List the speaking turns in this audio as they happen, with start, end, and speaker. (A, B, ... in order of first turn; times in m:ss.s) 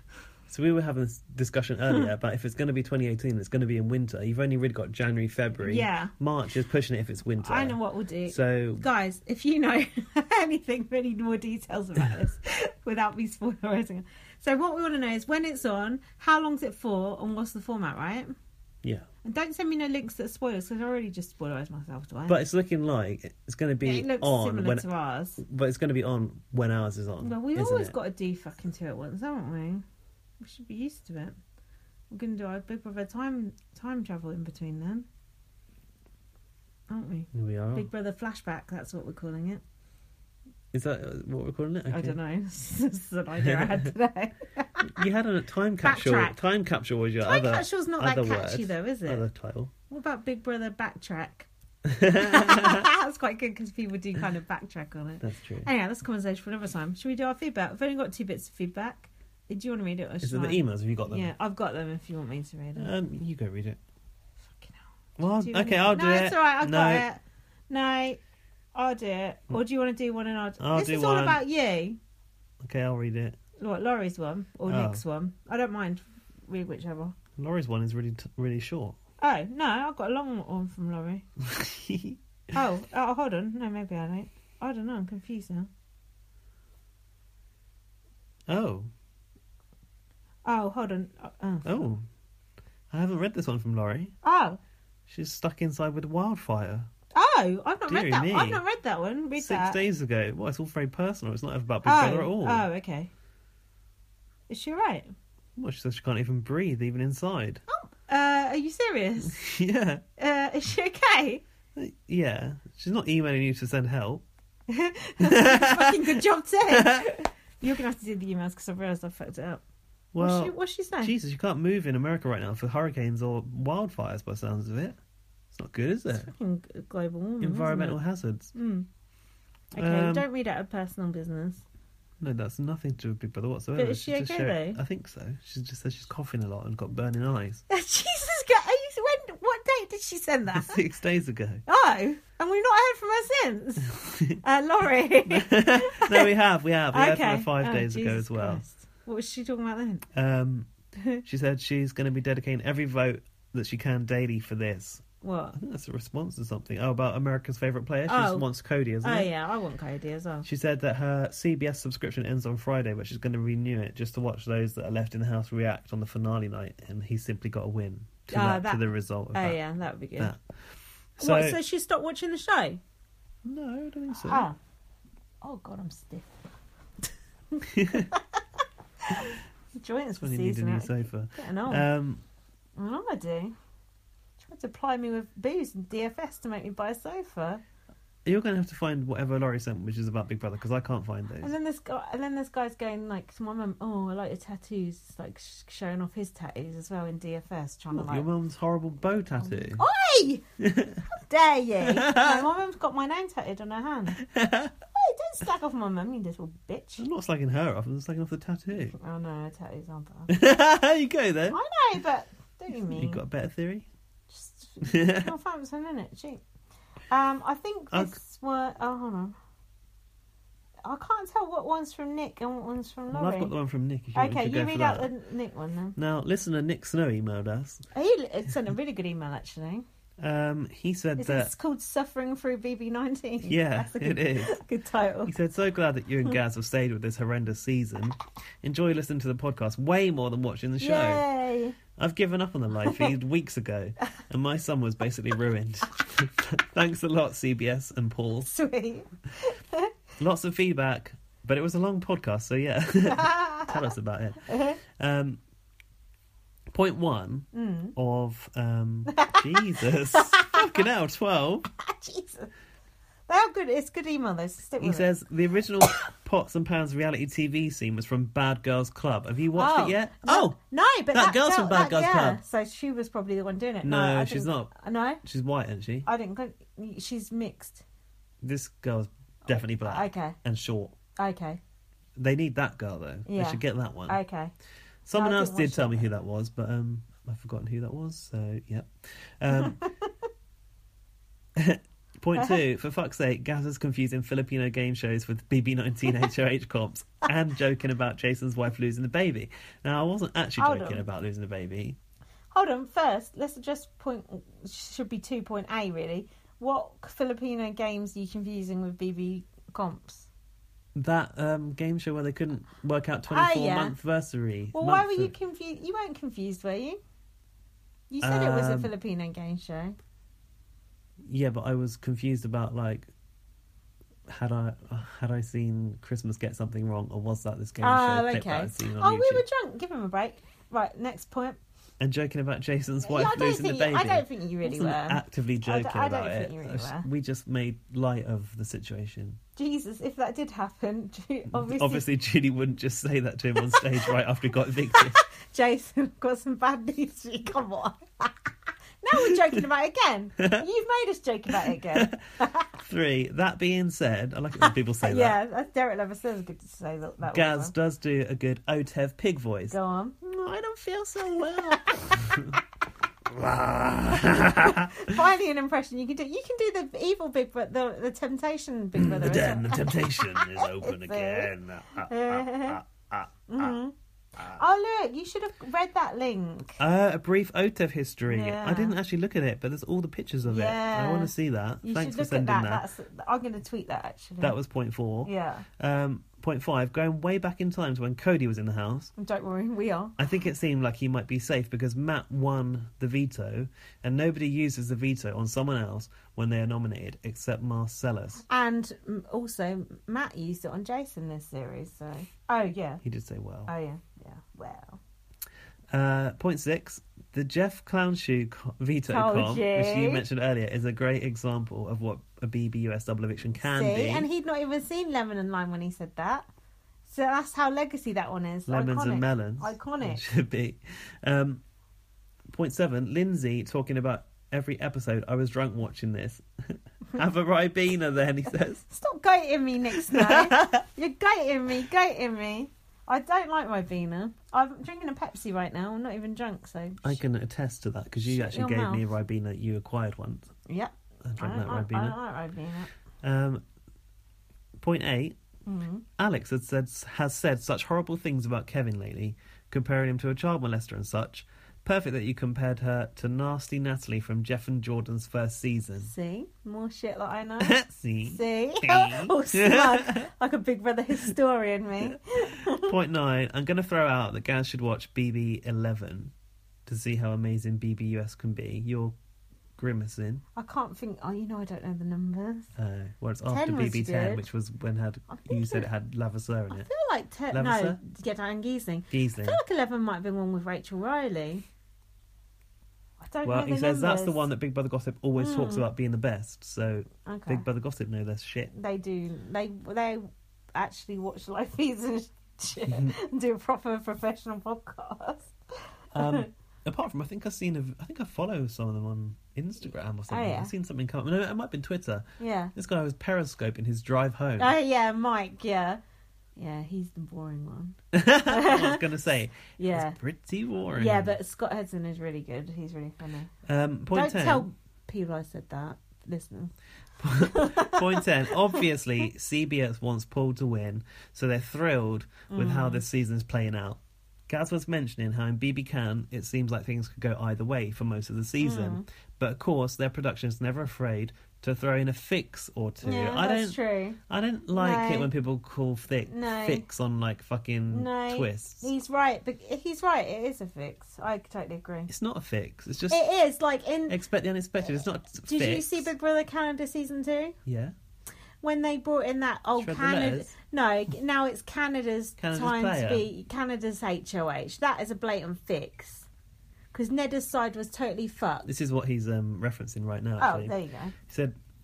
0:00.5-0:08.8 A
0:05.6-0:06.1 B
0:07.4-0:18.3 B
0:19.2-0:22.4 B
0:22.3-0:24.9 A
0:23.8-0:25.4 B
0:25.4-0:28.0 A
0:27.2-0:29.8 B
0:30.4-0:31.4 B
0:32.1-0:35.1 B
0:36.9-0:39.6 B
0:37.3-0:37.9 A
0:40.7-0:42.2 A
0:41.9-0:45.0 B
0:43.4-0:43.9 A
0:44.9-0:49.7 A
0:45.8-0:46.4 B
0:47.2-0:49.3 B
0:49.9-0:51.5 B
0:51.8-0:52.9 A
0:52.1-1:02.9 B
0:55.2-0:55.7 A
1:00.2-1:01.3 A
1:02.8-1:03.8 A
1:04.4-1:04.9 B
1:05.2-1:07.1 A
1:05.4-1:08.2 B
1:08.7-1:12.0 B
1:10.6-1:11.4 A
1:12.6-1:13.4 A
1:13.6-1:17.2 B
1:14.7-1:15.0 A
1:17.4-1:19.0 A
1:19.2-1:21.3 B
1:21.4-1:22.6 A
1:22.5-1:25.7 B
1:28.5-1:28.9 A
1:30.4-1:31.8 B
1:31.6-1:32.0 A
1:32.9-1:34.2 A
1:34.2-1:34.6 B
1:35.1-1:36.9 A
1:37.2-1:39.8 B
1:37.9-1:38.6 A
1:39.4-1:42.7 A
1:41.8-1:43.1 B
1:44.5-1:45.1 B
1:45.6-1:47.6 A
1:47.7-1:49.4 B
1:49.3-1:50.0 A
1:50.2-1:51.4 B
1:51.8-1:54.2 A
1:54.7-1:59.6 B
1:55.2-1:57.1 A
2:00.1-2:05.0 A
2:00.2-2:01.1 B
2:05.5-2:06.3 A
2:06.2-2:08.0 B
2:07.4-2:08.5 A
2:08.6-2:08.9 B
2:09.7-2:11.6 B
2:09.8-2:10.3 A
2:12.2-2:17.6 A
2:13.8-2:14.8 B
2:17.7-2:20.8 B
2:20.5-2:21.6 A
2:21.7-2:26.3 B
2:24.0-2:24.4 A
2:25.3-2:28.6 A
2:26.9-2:30.0 B
2:30.1-2:30.7 A
2:31.0-2:31.2 B
2:31.2-2:39.3 A
2:35.2-2:35.6 B
2:38.1-2:38.5 B
2:39.0-2:40.5 B
2:40.4-2:49.6 A
2:48.3-2:50.3 B
2:51.2-2:51.6 A
2:51.2-2:52.8 B
2:53.4-2:54.5 A
2:54.1-2:54.6 B
2:55.4-2:56.4 B
2:57.5-2:58.4 B
2:57.7-2:58.1 A
2:59.0-3:01.9 B
3:00.2-3:02.2 A
3:02.8-3:03.5 B
3:04.4-3:07.6 B
3:08.2-3:11.5 A
3:11.4-3:18.3 B
3:17.9-3:19.8 A
3:19.6-3:20.4 B
3:20.6-3:21.0 A
3:21.1-3:24.2 B
3:21.8-3:22.5 A
3:24.2-3:24.7 A
3:24.9-3:27.1 B
3:27.0-3:29.0 A
3:28.9-3:30.4 B
3:30.3-3:31.6 A
3:31.5-3:33.2 B
3:32.9-3:33.9 A
3:34.3-3:36.4 B
3:34.8-3:35.3 A
3:37.1-3:39.4 B
3:37.9-3:38.2 A
3:40.8-3:43.5 B
3:43.1-3:45.1 A
3:44.2-3:46.0 B
3:46.0-3:47.9 A
3:47.9-3:49.9 B
3:50.2-3:51.5 A
3:51.2-3:55.3 B
3:53.5-3:54.6 A
3:55.2-4:01.2 A
4:00.8-4:01.8 B
4:02.0-4:08.5 A
4:08.5-4:09.9 B
4:10.2-4:15.4 A
4:13.1-4:13.8 B
4:14.5-4:14.8 B
4:16.7-4:21.7 A
4:17.5-4:18.0 B
4:19.1-4:20.8 B
4:21.8-4:22.5 B
4:23.3-4:25.1 B
4:24.8-4:30.6 A
4:29.6-4:35.2 B
4:31.1-4:32.4 A
4:33.8-4:34.7 A
4:35.2-4:36.1 A
4:36.0-4:37.8 B
4:38.4-4:41.0 A
4:39.5-4:40.4 B
4:41.2-4:41.6 B
4:42.2-4:44.2 A
4:43.3-4:44.5 B
4:45.1-4:49.8 A
4:45.2-4:46.1 B
4:51.6-5:02.0 A
5:00.6-5:01.0 B
5:02.5-5:10.3 B
5:11.0-5:15.3 A
5:13.3-5:14.0 B
5:14.7-5:17.0 B
5:18.1-5:20.0 B
5:18.2-5:18.9 A
5:21.3-5:23.1 A
5:24.3-5:29.4 A
5:27.8-5:31.6 B
5:32.0-5:39.4 A
5:33.0-5:37.1 B
5:39.6-5:42.0 B
5:41.5-5:45.2 A
5:43.6-5:44.0 B
5:44.9-5:52.7 B
5:51.9-5:52.2 A
5:52.7-5:55.4 A
5:55.0-5:57.7 B
5:57.3-6:02.6 A
5:59.7-6:00.2 B
6:01.4-6:02.4 B
6:03.3-6:05.2 A
6:04.3-6:12.8 B
6:09.0-6:13.8 A
6:13.5-6:16.8 B
6:16.8-6:22.9 A
6:18.3-6:19.0 B
6:20.4-6:24.6 B
6:24.4-6:29.1 A
6:25.2-6:25.7 B
6:29.2-6:30.2 B
6:30.2-6:38.4 A
6:38.5-6:43.0 B
6:43.0-6:43.7 A
6:43.7-6:45.0 B
6:45.9-6:54.3 A
6:49.1-6:50.2 B
6:53.6-6:56.5 B
6:57.1-7:00.2 B
6:58.7-7:01.6 A
7:02.5-7:08.8 A
7:08.9-7:17.2 B
7:09.9-7:10.8 A
7:17.0-7:20.5 A
7:18.3-7:19.0 B
7:20.7-7:22.9 B
7:21.2-7:22.2 A
7:23.2-7:23.6 A
7:24.8-7:25.4 A
7:25.7-7:26.0 B
7:26.2-7:36.1 A
7:36.0-7:42.9 B
7:37.6-7:40.3 A
7:42.6-7:46.3 A
7:46.9-7:49.2 A
7:49.8-7:50.4 A
7:50.6-7:52.7 B
7:52.8-7:56.9 A
7:53.5-7:54.5 B
7:55.3-7:55.9 B
7:56.7-8:01.6 B
7:57.5-7:58.0 A
7:59.1-7:59.6 A
8:03.2-8:04.5 B
8:03.4-8:08.7 A
8:05.4-8:05.9 B
8:07.3-8:07.7 B
8:08.7-8:16.5 B
8:12.9-8:13.2 A
8:16.1-8:24.8 A
8:20.3-8:20.7 B
8:22.4-8:22.7 B
8:24.6-8:26.0 B
8:26.6-8:29.0 B
8:28.1-8:31.4 A
8:29.8-8:30.2 B
8:31.0-8:33.5 B
8:33.7-8:34.7 A
8:34.1-8:36.7 B
8:37.2-8:58.9 A
8:37.4-8:38.8 B
8:42.5-8:43.0 B
8:48.6-8:49.1 B
8:53.0-8:54.2 B
8:54.7-8:55.3 B
8:56.3-8:56.9 B
8:57.9-9:02.1 B
9:02.1-9:03.2 A
9:03.1-9:04.2 B
9:04.1-9:06.1 A
9:05.4-9:07.6 B
9:07.7-9:07.9 A
9:08.6-9:16.3 B
9:09.8-9:10.5 A
9:12.4-9:13.3 A
9:16.9-9:18.7 B
9:18.7-9:21.6 A
9:20.4-9:21.2 B